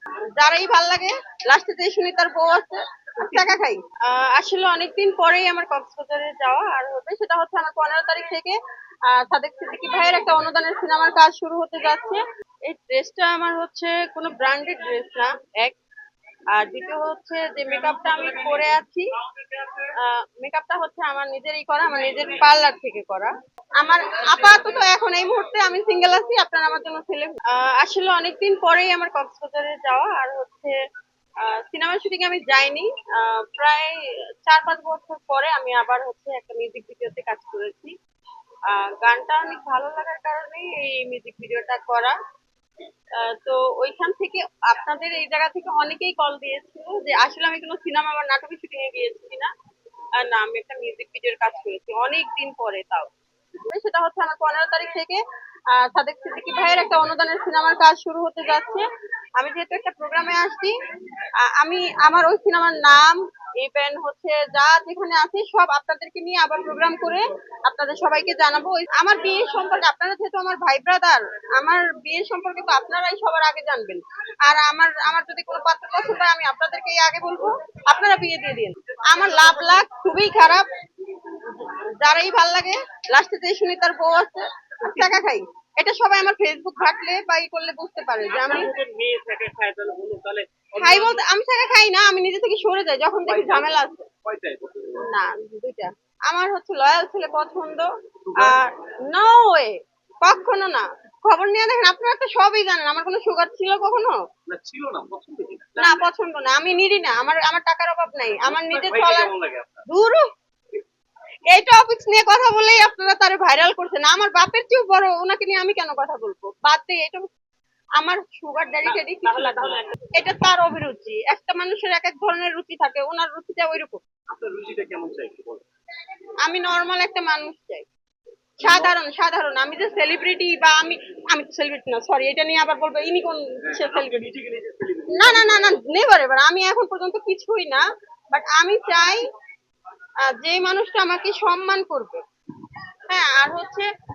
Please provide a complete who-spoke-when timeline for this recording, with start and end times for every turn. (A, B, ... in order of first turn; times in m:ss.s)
0:00.4-0:08.6 A
0:09.1-0:15.8 A
0:16.5-0:19.0 A
0:20.0-0:30.8 A
0:31.5-0:37.9 A
0:38.7-0:42.2 A
0:43.2-0:49.5 A
0:50.2-0:53.1 A
0:53.6-0:55.2 A
0:55.7-0:58.8 A
0:59.4-1:00.7 A
1:01.4-1:20.7 A
1:18.9-1:19.8 B
1:21.5-1:28.7 A
1:24.9-1:25.1 B
1:28.3-1:31.2 B
1:30.8-1:34.1 A
1:33.2-1:35.0 B
1:35.0-1:44.2 A
1:38.2-1:38.6 B
1:44.5-1:46.1 B
1:45.8-1:49.3 A
1:48.4-1:49.9 B
1:49.9-1:50.2 A
1:51.5-1:57.2 A
1:58.0-2:04.0 A
1:58.9-1:59.8 B
2:04.3-2:05.6 B
2:06.4-2:07.8 A
2:08.6-2:08.9 B
2:08.6-2:14.3 A
2:13.6-2:15.8 B
2:15.1-2:19.2 A
2:20.3-2:22.2 A
2:23.1-2:23.9 A